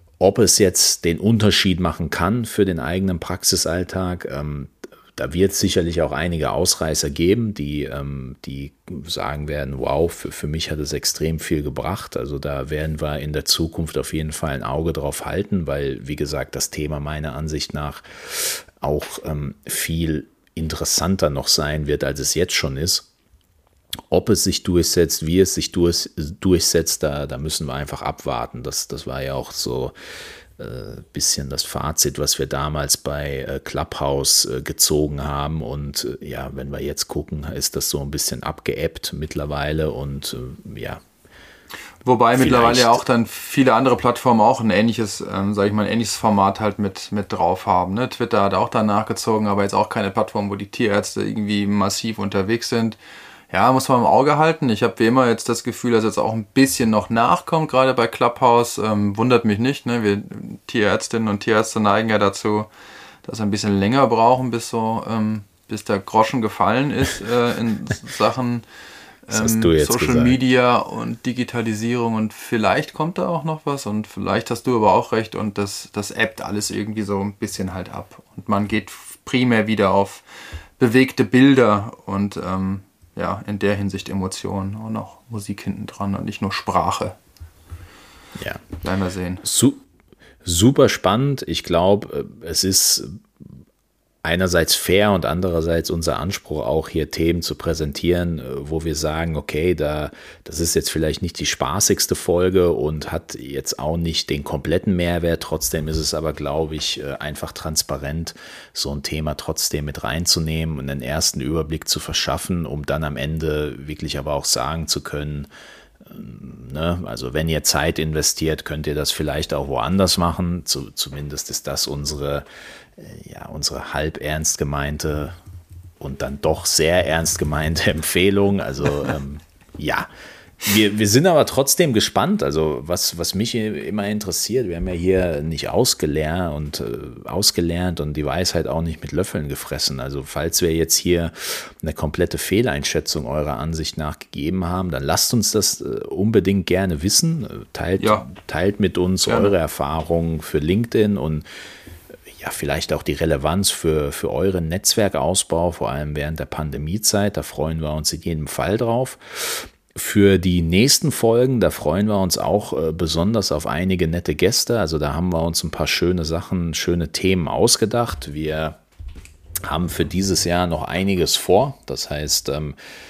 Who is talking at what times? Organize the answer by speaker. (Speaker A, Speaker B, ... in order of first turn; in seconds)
Speaker A: 0.2-23.1, 24.1-29.9, 30.6-41.0, 42.4-43.0, 69.3-70.3, 88.4-88.6, 89.4-89.8, 90.4-93.2, 94.2-115.5, 116.0-122.5, 123.0-125.3, 126.0-130.1, 130.6-151.4, 152.3-168.8, 169.7-172.8
Speaker B: 42.0-53.0, 53.5-62.7, 63.2-68.6, 69.3-80.2, 80.8-87.2, 88.8-89.4, 148.0-148.2, 149.3-149.5